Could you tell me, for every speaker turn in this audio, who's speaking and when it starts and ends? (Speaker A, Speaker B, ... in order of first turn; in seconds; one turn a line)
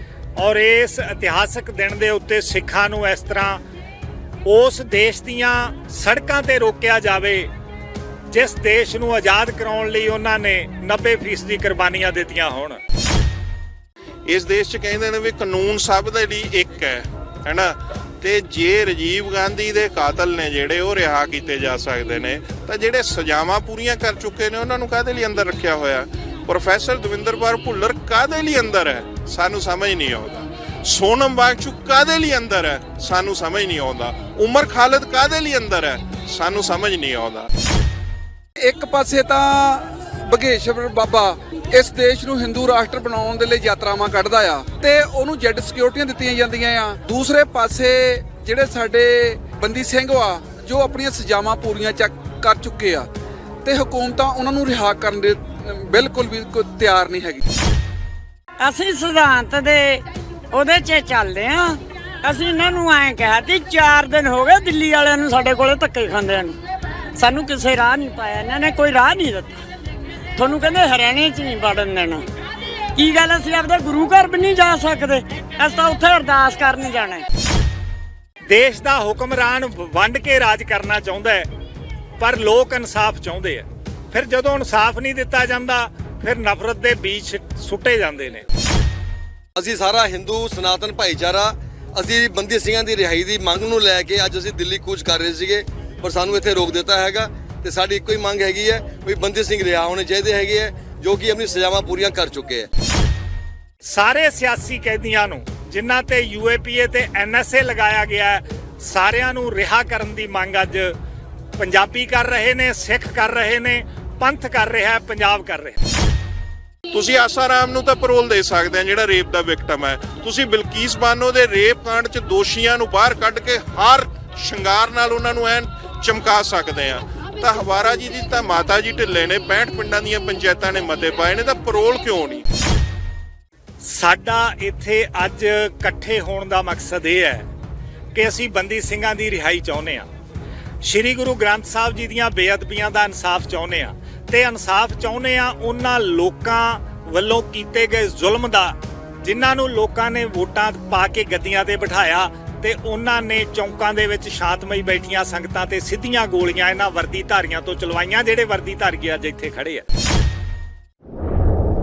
Speaker A: 0.4-3.6
Speaker A: 4.5-7.5
Speaker A: 8.3-12.8
Speaker B: 14.3-37.5
Speaker C: 38.6-53.1
Speaker C: 53.6-57.5
Speaker D: 58.6-66.5
Speaker D: 67.2-69.6
Speaker D: 70.4-72.2
Speaker D: 73.0-77.2
Speaker A: 78.5-81.5
Speaker A: 82.2-88.5
Speaker E: 89.5-102.7
Speaker A: 103.8-110.9
Speaker A: 111.6-115.8
Speaker B: 116.9-132.4
Speaker A: 133.8-137.5
Speaker A: 138.1-140.1
Speaker A: 140.8-159.8